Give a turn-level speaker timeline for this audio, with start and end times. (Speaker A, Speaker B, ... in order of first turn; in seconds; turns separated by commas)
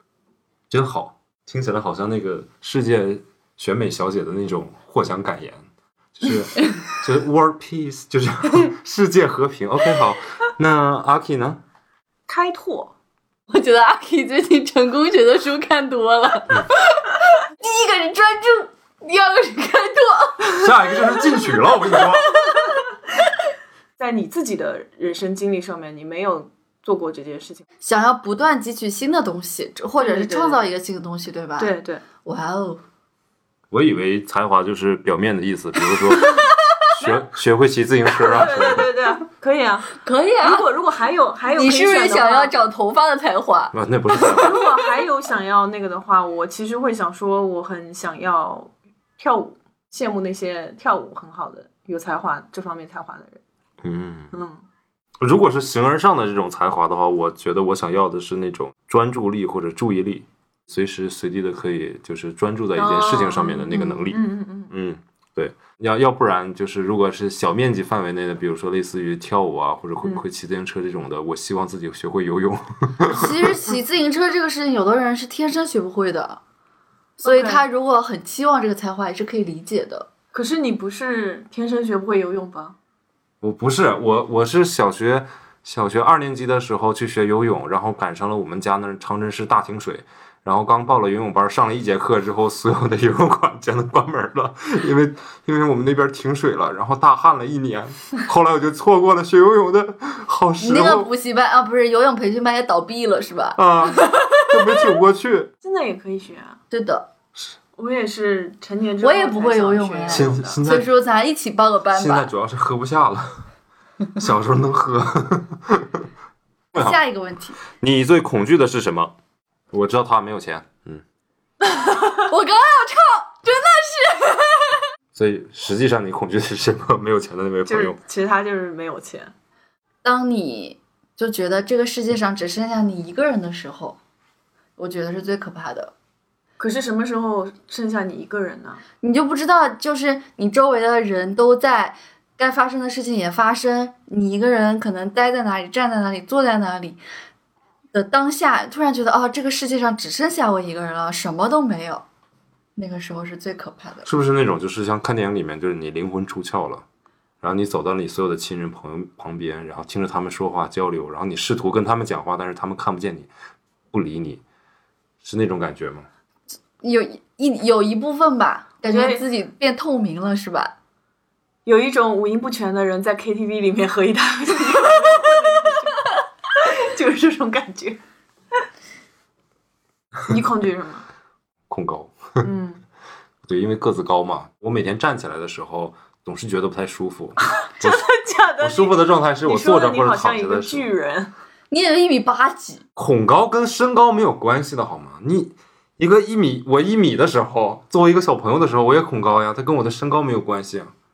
Speaker A: 0.7-5.6, Speaker A: 6.2-11.6, Speaker B: 12.3-12.9, Speaker C: 13.5-22.8, Speaker A: 20.5-22.3, Speaker B: 24.0-27.6, Speaker C: 27.8-32.8, Speaker B: 30.0-30.6, Speaker B: 31.6-32.0, Speaker A: 33.7-38.9, Speaker C: 36.0-36.7, Speaker B: 38.1-42.5, Speaker C: 40.0-40.7, Speaker C: 41.5-44.5, Speaker A: 43.7-44.6, Speaker B: 44.2-53.4, Speaker A: 53.8-54.3, Speaker B: 54.3-54.6, Speaker A: 55.2-73.5, Speaker B: 62.8-64.7, Speaker C: 63.7-64.1, Speaker C: 73.1-76.4, Speaker B: 77.2-77.6, Speaker C: 77.2-80.1, Speaker B: 80.3-82.8, Speaker A: 83.4-101.1, Speaker C: 100.6-105.0, Speaker A: 103.5-105.5, Speaker B: 105.6-106.6, Speaker C: 106.7-107.1, Speaker B: 107.8-110.6, Speaker C: 109.0-112.3, Speaker A: 110.1-110.9, Speaker A: 111.9-113.4, Speaker A: 114.1-116.0, Speaker C: 116.7-117.6, Speaker A: 117.7-119.1, Speaker A: 119.7-121.0, Speaker C: 122.1-124.9, Speaker A: 125.1-128.0, Speaker B: 127.7-129.3, Speaker C: 130.0-134.0, Speaker C: 134.8-135.9, Speaker B: 136.6-138.8, Speaker C: 139.0-147.0, Speaker C: 147.9-152.0, Speaker C: 152.8-154.1, Speaker A: 154.1-156.8, Speaker A: 157.4-163.3, Speaker A: 163.9-164.4, Speaker A: 165.2-166.1, Speaker C: 166.8-170.7, Speaker B: 168.9-169.2, Speaker B: 171.7-178.0, Speaker B: 180.3-181.1, Speaker A: 181.7-182.5, Speaker B: 182.4-182.8, Speaker A: 183.5-188.1, Speaker B: 187.6-191.3, Speaker A: 188.6-190.9, Speaker C: 191.7-192.8, Speaker A: 192.9-200.9